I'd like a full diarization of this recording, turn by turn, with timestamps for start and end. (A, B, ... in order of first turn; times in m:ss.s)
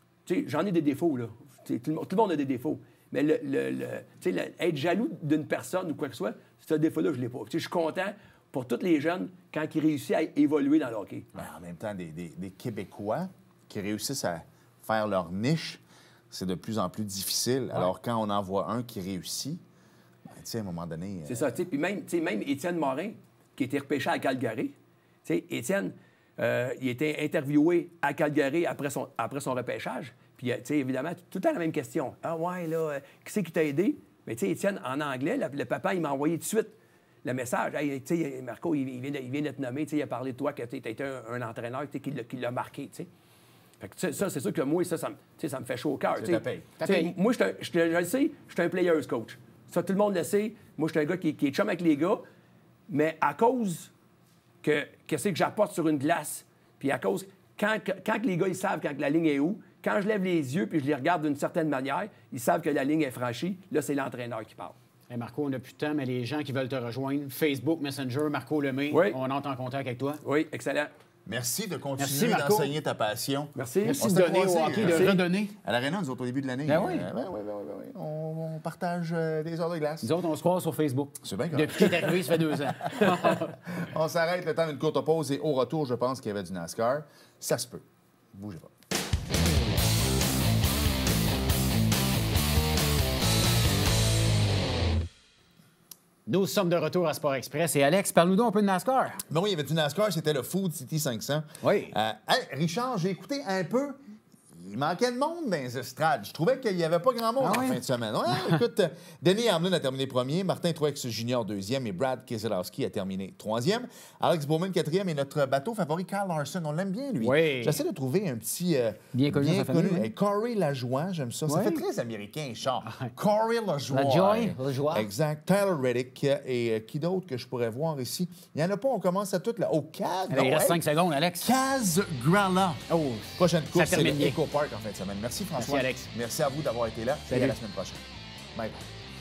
0:00.3-0:11.3 A
0:11.4-0:19.6 B
0:20.3-0:21.5 B
0:21.3-0:24.7 A
0:25.2-0:43.1 A
0:43.8-0:52.2 A
0:46.2-0:46.8 B
0:46.8-0:47.1 C
0:52.9-0:53.9 A
0:54.6-1:04.8 A
1:05.1-1:10.2 C
1:08.9-1:09.2 A
1:10.2-1:10.9 A
1:11.3-1:20.1 B
1:12.0-1:12.8 C
1:13.6-1:14.0 A
1:13.8-1:15.6 C
1:14.8-1:15.2 A
1:16.7-1:17.1 C
1:20.0-1:23.6 C
1:21.2-1:28.7 B
1:36.3-1:39.2 C
1:39.3-1:44.0 B
1:41.6-1:42.0 C
1:44.6-2:10.8 B
1:47.4-1:48.6 C
1:57.2-1:57.8 C
1:59.1-2:00.1 C
2:01.5-2:01.8 C
2:02.8-2:03.1 C
2:03.9-2:05.1 C
2:10.3-2:11.5 C
2:11.4-2:12.8 B
2:12.9-2:14.4 C
2:13.4-2:18.0 B
2:15.6-2:16.1 C
2:17.3-2:17.6 C
2:18.6-2:18.8 B